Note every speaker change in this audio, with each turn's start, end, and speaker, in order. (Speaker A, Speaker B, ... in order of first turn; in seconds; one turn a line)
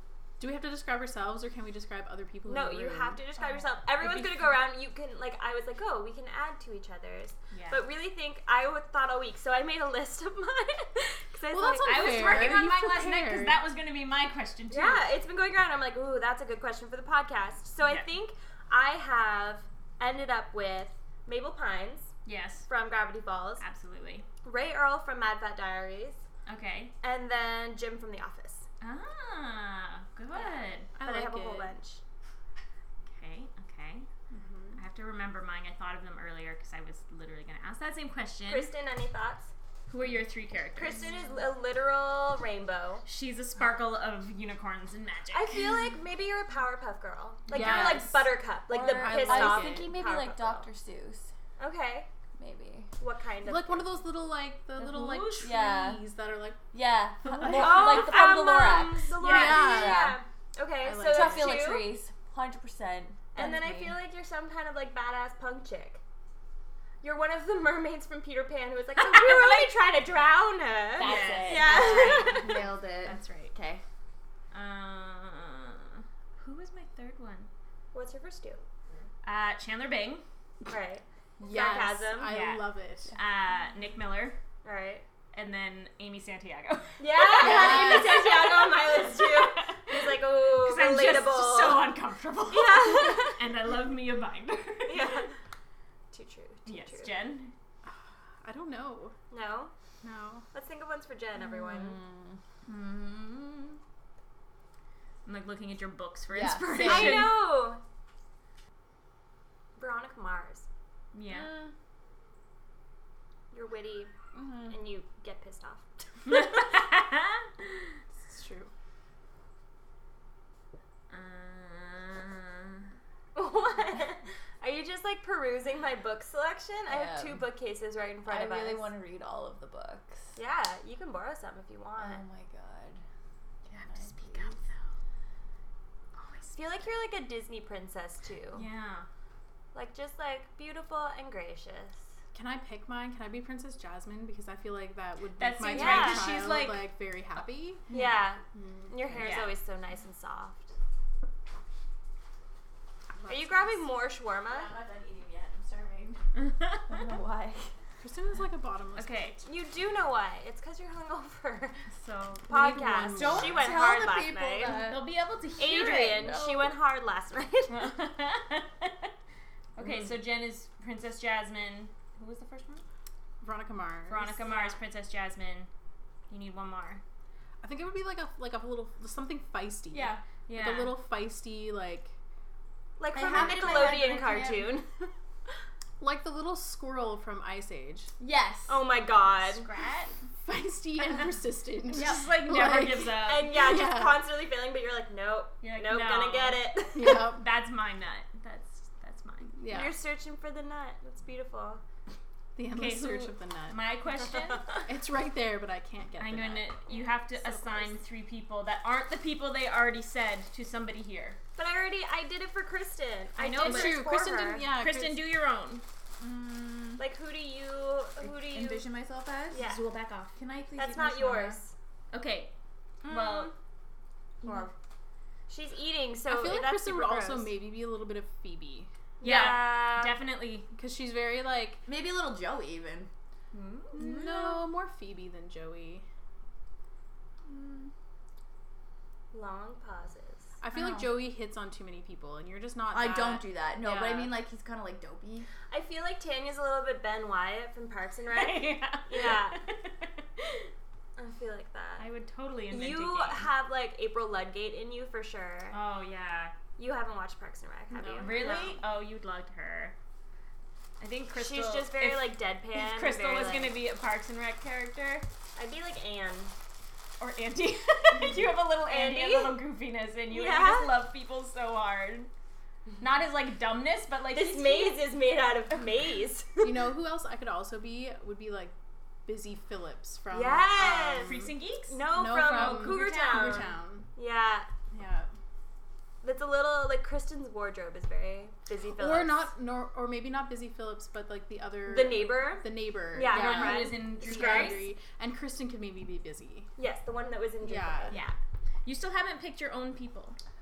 Speaker A: 0.4-3.2
Speaker B: 2.5-12.7
Speaker C: 3.4-4.6
Speaker C: 7.5-7.8
Speaker A: 11.5-13.6
Speaker C: 11.8-15.1
Speaker B: 14.7-22.1
Speaker C: 22.2-22.7
Speaker B: 22.7-23.6
Speaker C: 23.6-24.3
Speaker B: 24.4-26.2
Speaker C: 26.5-26.9
Speaker B: 27.0-28.6
Speaker C: 28.8-30.9
Speaker B: 30.3-32.0
Speaker A: 30.9-31.8
Speaker C: 33.1-34.1
Speaker A: 34.3-34.8
Speaker C: 34.8-38.7
Speaker B: 38.5-39.5
Speaker C: 39.9-41.2
Speaker B: 40.8-43.0
Speaker C: 43.0-45.7
Speaker B: 45.3-50.7
Speaker C: 47.5-48.1
Speaker A: 47.5-49.9
Speaker D: 48.7-51.3
Speaker B: 51.6-52.1
Speaker D: 52.4-52.9
Speaker B: 53.0-53.9
Speaker A: 53.4-56.6
Speaker C: 54.8-55.5
Speaker D: 55.4-56.0
Speaker D: 56.7-60.2
Speaker A: 57.2-58.1
Speaker B: 57.5-61.9
Speaker C: 59.2-59.8
Speaker A: 59.3-60.1
Speaker A: 60.8-61.7
Speaker D: 61.1-64.0
Speaker B: 63.4-66.0
Speaker B: 67.0-72.7
Speaker C: 69.0-69.7
Speaker D: 71.0-73.8
Speaker C: 71.0-73.5
Speaker C: 74.5-77.5
Speaker B: 77.9-78.6
Speaker C: 79.2-80.2
Speaker B: 80.7-82.4
Speaker A: 81.4-83.1
Speaker C: 82.3-84.4
Speaker B: 84.6-85.0
Speaker C: 85.3-95.3
Speaker B: 87.0-91.9
Speaker A: 87.4-88.3
Speaker B: 92.5-93.4
Speaker B: 94.9-95.3
Speaker B: 96.1-97.2
Speaker C: 96.7-97.5
Speaker A: 97.8-99.2
Speaker B: 99.3-99.7
Speaker A: 100.0-100.5
Speaker B: 100.5-102.0
Speaker D: 101.4-102.4
Speaker C: 102.7-103.8
Speaker C: 105.2-107.4
Speaker D: 106.3-107.3
Speaker B: 106.8-107.8
Speaker B: 109.8-110.7
Speaker C: 111.1-111.5
Speaker D: 111.3-111.7
Speaker B: 113.5-114.1
Speaker D: 114.3-114.8
Speaker B: 114.7-116.6
Speaker C: 116.3-117.7
Speaker A: 118.2-118.7
Speaker C: 121.1-122.9
Speaker B: 123.3-128.9
Speaker D: 126.9-127.4
Speaker D: 128.2-130.2
Speaker B: 130.3-132.2
Speaker D: 132.0-133.0
Speaker D: 133.7-134.6
Speaker C: 133.7-134.7
Speaker C: 136.2-136.9
Speaker B: 136.5-138.6
Speaker C: 138.5-139.1
Speaker B: 139.7-142.1
Speaker A: 142.3-147.9
Speaker C: 145.4-146.9
Speaker B: 145.7-146.4
Speaker B: 147.9-150.7
Speaker A: 148.5-149.3
Speaker C: 149.2-149.5
Speaker A: 153.2-153.8
Speaker B: 153.3-154.7
Speaker D: 154.5-156.2
Speaker C: 156.3-157.1
Speaker D: 156.9-157.7
Speaker A: 158.0-159.4
Speaker C: 159.0-159.4
Speaker B: 159.4-161.8
Speaker C: 161.9-162.5
Speaker B: 162.5-164.9
Speaker A: 162.5-163.8
Speaker D: 163.1-165.1
Speaker C: 164.7-166.3
Speaker B: 165.6-167.8
Speaker D: 165.9-166.8
Speaker C: 167.7-169.1
Speaker C: 169.8-172.8
Speaker A: 173.4-174.4
Speaker C: 174.1-175.7
Speaker B: 174.4-174.8
Speaker C: 176.3-177.0
Speaker A: 177.6-182.1
Speaker C: 179.9-180.9
Speaker B: 183.0-184.9
Speaker D: 183.1-184.8
Speaker C: 183.4-183.9
Speaker A: 186.0-188.1
Speaker D: 188.2-188.8
Speaker B: 188.7-189.7
Speaker C: 189.1-190.1
Speaker A: 190.4-194.2
Speaker C: 191.9-193.6
Speaker B: 193.2-197.3
Speaker C: 195.6-196.6
Speaker A: 196.9-197.4
Speaker C: 197.3-199.5
Speaker A: 199.5-199.9
Speaker B: 199.7-201.8
Speaker A: 202.6-203.9
Speaker C: 202.7-204.8
Speaker A: 204.8-207.9
Speaker C: 206.2-211.4
Speaker B: 211.6-214.7
Speaker C: 213.4-214.1
Speaker A: 213.6-215.2
Speaker C: 214.8-215.8
Speaker D: 216.2-217.0
Speaker B: 217.0-218.8
Speaker D: 218.2-219.6
Speaker B: 219.5-219.8
Speaker C: 219.5-220.3
Speaker D: 220.3-221.6
Speaker B: 220.8-221.7
Speaker C: 222.1-222.5
Speaker D: 223.0-223.5
Speaker C: 223.1-223.5
Speaker D: 224.4-224.7
Speaker B: 225.5-227.5
Speaker A: 226.3-228.9
Speaker B: 229.2-230.2
Speaker C: 229.2-230.7
Speaker D: 229.3-229.6
Speaker A: 230.7-231.8
Speaker D: 231.9-233.1
Speaker C: 233.5-234.1
Speaker A: 233.9-236.1
Speaker D: 234.0-234.7
Speaker D: 237.5-237.9
Speaker B: 239.3-240.6
Speaker A: 240.6-244.4
Speaker D: 240.7-241.1
Speaker D: 242.9-245.5
Speaker B: 245.7-249.6
Speaker C: 248.3-250.7
Speaker B: 251.2-252.1
Speaker C: 252.0-253.5
Speaker B: 252.7-255.8
Speaker C: 255.7-256.5
Speaker B: 256.8-258.8
Speaker A: 257.9-258.7
Speaker C: 258.2-259.9
Speaker C: 261.0-265.2
Speaker B: 261.3-263.7
Speaker B: 265.6-266.5
Speaker C: 267.2-272.3
Speaker B: 268.9-269.6
Speaker B: 270.3-270.9
Speaker C: 273.0-275.1
Speaker B: 274.3-276.8
Speaker A: 276.6-278.7
Speaker A: 279.3-281.6
Speaker B: 280.3-281.4
Speaker C: 281.1-283.7
Speaker B: 281.9-284.7
Speaker A: 282.1-284.1
Speaker A: 284.9-285.3
Speaker B: 286.2-289.5
Speaker A: 288.9-296.7
Speaker B: 291.9-294.9
Speaker C: 293.2-294.9
Speaker B: 296.8-298.4
Speaker A: 297.6-298.2
Speaker C: 298.9-300.4